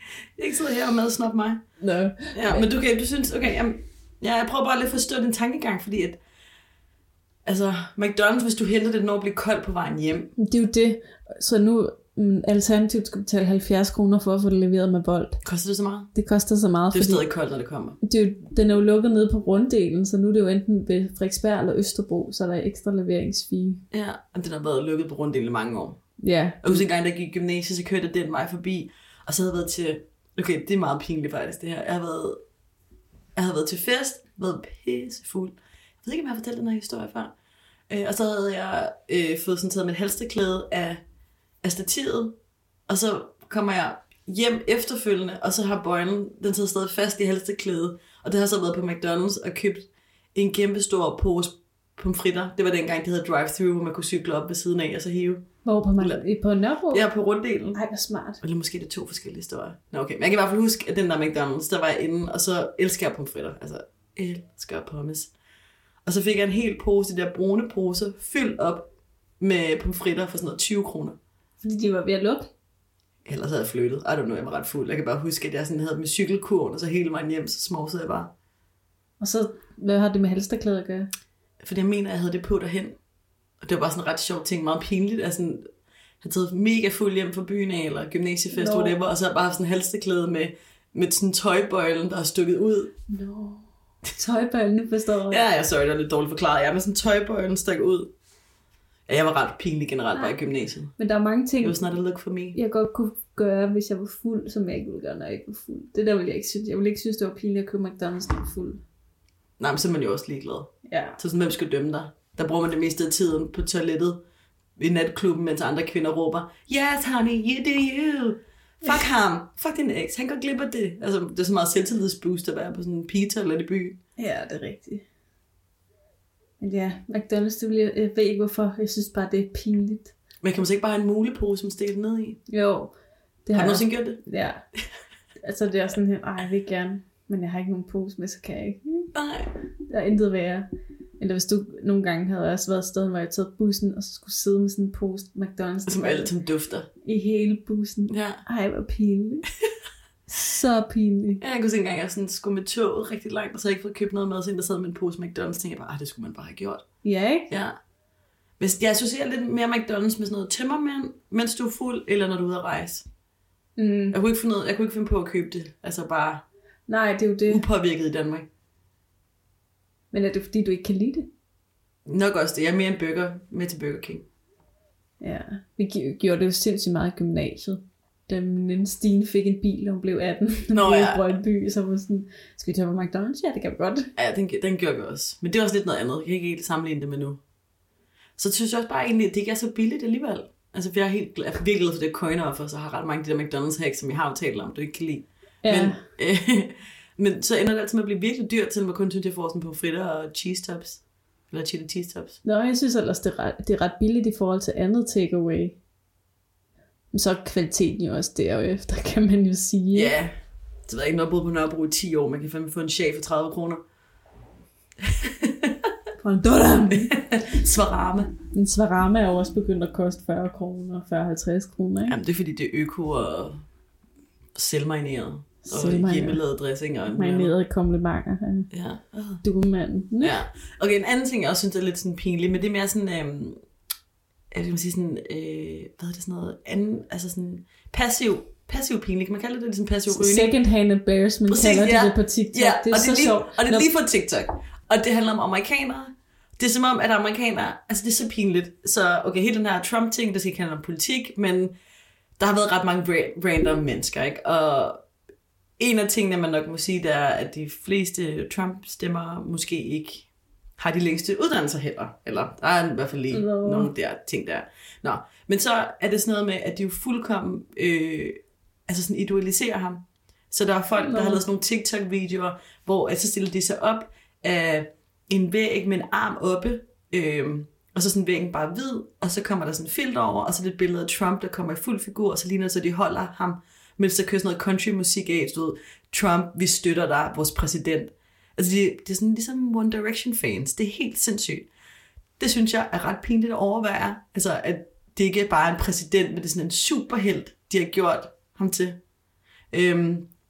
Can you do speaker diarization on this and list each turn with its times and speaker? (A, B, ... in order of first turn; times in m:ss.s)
0:00.4-0:01.6 A
0:01.8-0:02.7 B
0:02.3-0:06.2 A
0:07.4-0:10.3 A
0:10.4-0:15.4 B
0:15.4-0:16.1 A
0:16.1-0:17.2 B
0:16.9-0:18.0 A
0:18.0-0:23.8 B
0:23.9-0:26.0 A
0:26.2-0:26.8 B
0:26.6-0:32.4 A
0:33.4-0:37.3 A
0:37.9-0:41.0 A
0:41.6-0:42.4 A
0:42.9-0:55.5 A
0:55.6-0:57.1 B
0:56.9-0:57.8 A
0:57.7-0:58.4 B
0:58.4-1:05.3 A
1:06.0-1:08.9 A
1:09.4-1:11.2 A
1:11.6-1:12.5 B
1:13.2-1:18.3 A
1:19.2-1:21.1 B
1:21.6-1:23.0 A
1:23.6-1:25.7 A
1:26.2-1:32.9 A
1:28.5-1:29.0 B
1:33.1-1:35.4 B
1:35.3-1:38.1 A
1:39.1-1:40.9 A
1:41.0-1:41.8 B
1:41.6-1:42.6 A
1:42.5-1:48.8 B
1:49.6-1:54.2 A
1:50.8-1:51.2 B
1:54.8-2:04.0 A
2:04.2-2:05.0 B
2:06.6-2:10.1 B
2:10.4-2:12.4 A
2:12.5-2:13.0 B
2:13.5-2:14.6 B
2:13.5-2:14.2 A
2:15.4-2:19.1 B
2:19.1-2:19.5 A
2:19.9-2:20.7 B
2:21.2-2:26.3 B
2:25.9-2:26.9 A
2:27.0-2:29.5 B
2:28.1-2:28.4 A
2:30.3-2:31.4 B
2:31.4-2:36.8 A
2:37.0-2:37.5 B
2:37.5-2:37.8 A
2:38.6-2:43.0 A
2:43.8-2:44.2 B
2:44.1-2:46.4 A
2:46.9-2:47.6 B
2:47.5-2:48.5 A
2:50.1-2:51.3 B
2:52.0-2:54.2 A
2:55.2-3:04.1 B
3:00.7-3:01.3 A
3:04.2-3:07.4 A
3:08.4-3:22.4 A
3:15.6-3:16.0 B
3:22.4-3:25.8 B
3:27.1-3:30.1 B
3:29.9-3:30.3 A
3:30.9-3:33.8 A
3:35.0-3:35.9 A
3:36.2-3:37.2 B
3:36.9-3:38.3 A
3:38.5-3:42.2 B
3:42.1-3:43.6 A
3:44.5-3:47.5 A
3:45.6-3:46.4 B
3:47.1-3:48.7 B
3:48.7-3:49.4 A
3:49.4-3:50.4 B
3:50.2-3:53.6 A
3:54.5-4:00.5 A
4:00.1-4:03.9 B
4:01.5-4:11.8 A
4:12.4-4:15.0 A
4:15.8-4:51.7 A
4:23.3-4:23.9 B
4:31.0-4:31.4 B
4:52.4-4:59.0 A
4:59.7-5:00.3 A